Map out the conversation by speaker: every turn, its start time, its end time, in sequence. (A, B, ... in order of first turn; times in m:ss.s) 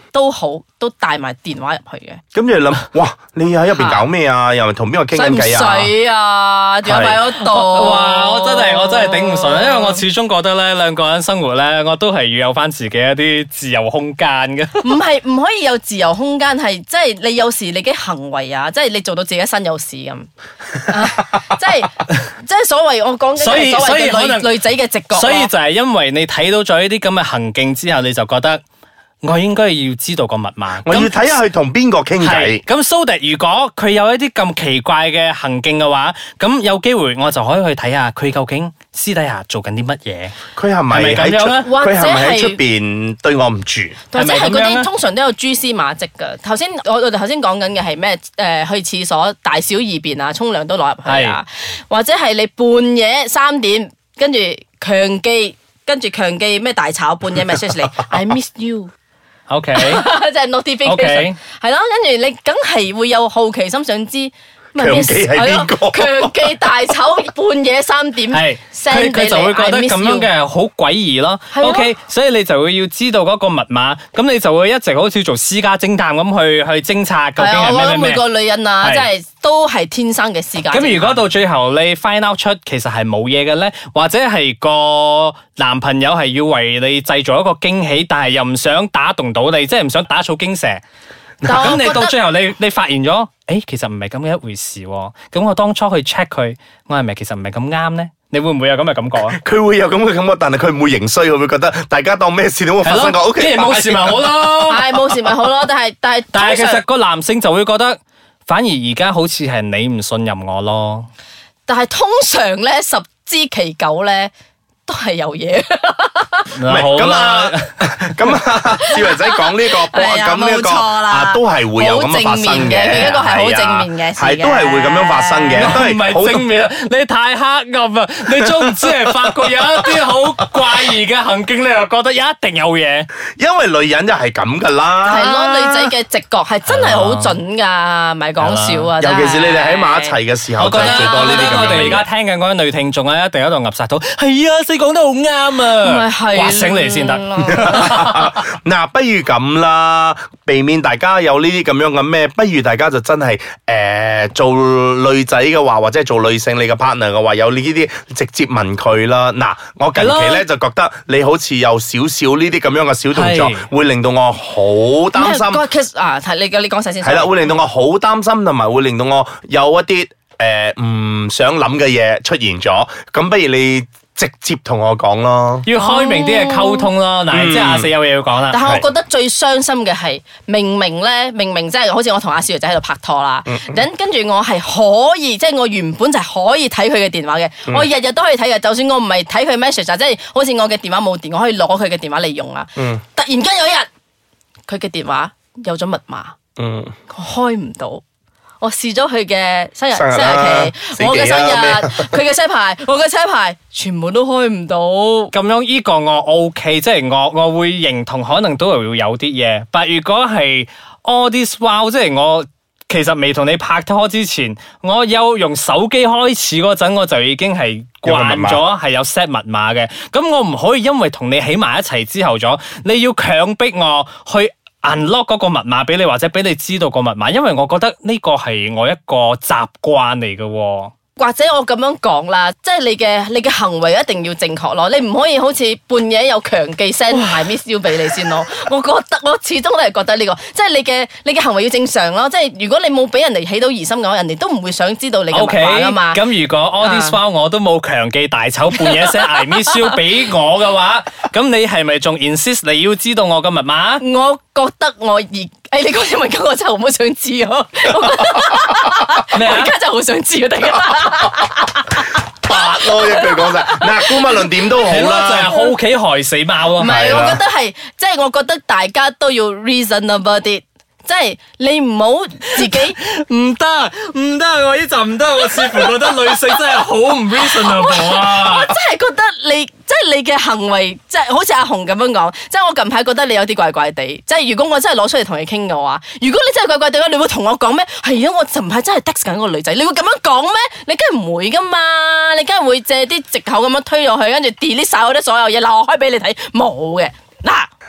0:00.1-0:02.2 A
0:02.3-0:05.9 B
0:03.7-0:04.0 A
0:05.1-0:10.0 A
0:06.8-0:07.2 B
0:07.4-0:14.9 C
0:14.8-0:20.3 A
0:20.8-0:25.5 A
0:23.4-0:24.5 C
0:25.1-0:28.6 C
0:29.2-0:31.4 C
0:30.8-0:32.6 B
0:32.2-0:40.4 C
0:40.5-0:44.0 B
0:40.9-0:41.7 C
0:41.6-0:42.6 A
0:44.1-0:58.9 A
0:44.1-0:44.9 C
0:51.0-0:51.4 C
0:59.5-1:00.1 C
0:59.7-1:10.3 A
1:00.8-1:01.4 C
1:04.8-1:06.5 B
1:08.3-1:18.2 C
1:11.5-1:11.9 A
1:17.4-1:21.3 A
1:18.8-1:19.0 C
1:20.7-1:30.8 C
1:31.4-1:31.7 B
1:31.4-1:32.1 A
1:31.4-1:39.4 C
1:39.3-1:44.3 B
1:42.8-1:45.0 C
1:44.6-1:46.8 A
1:46.3-1:51.1 C
1:51.6-1:54.3 A
1:54.8-1:56.5 A
1:56.5-1:57.7 C
1:56.7-2:06.5 B
1:58.8-2:05.8 A
2:05.6-2:13.1 C
2:08.4-2:10.0 B
2:13.4-2:15.9 B
2:15.0-2:22.0 A
2:16.7-2:17.4 C
2:18.4-2:18.9 C
2:19.0-2:22.0 B
2:20.6-2:28.3 C
2:25.8-2:28.0 A
2:27.5-2:45.6 B
2:39.9-2:40.4 C
2:43.1-2:43.6 C
2:45.1-2:47.6 A
2:47.0-2:55.6 B
2:55.6-2:58.6 C
2:55.8-2:56.9 A
2:57.3-2:57.9 B
2:58.5-3:13.9 A
3:03.4-3:03.8 B
3:12.8-3:13.0 B
3:14.7-3:16.4 A
3:16.6-3:16.9 B
3:17.1-3:18.0 A
3:18.6-3:25.3 A
3:19.9-3:22.2 B
3:25.3-3:50.9 C
3:38.0-3:38.6 B
3:51.2-4:06.2 A
4:05.3-4:14.0 C
4:06.8-4:07.2 A
4:08.8-4:10.0 A
4:14.0-4:24.5 A
4:19.3-4:19.7 C
4:22.4-4:25.6 B
4:24.8-4:27.0 C
4:26.8-4:33.0 A
4:26.8-4:27.4 B
4:32.6-4:38.7 C
4:37.5-4:57.7 A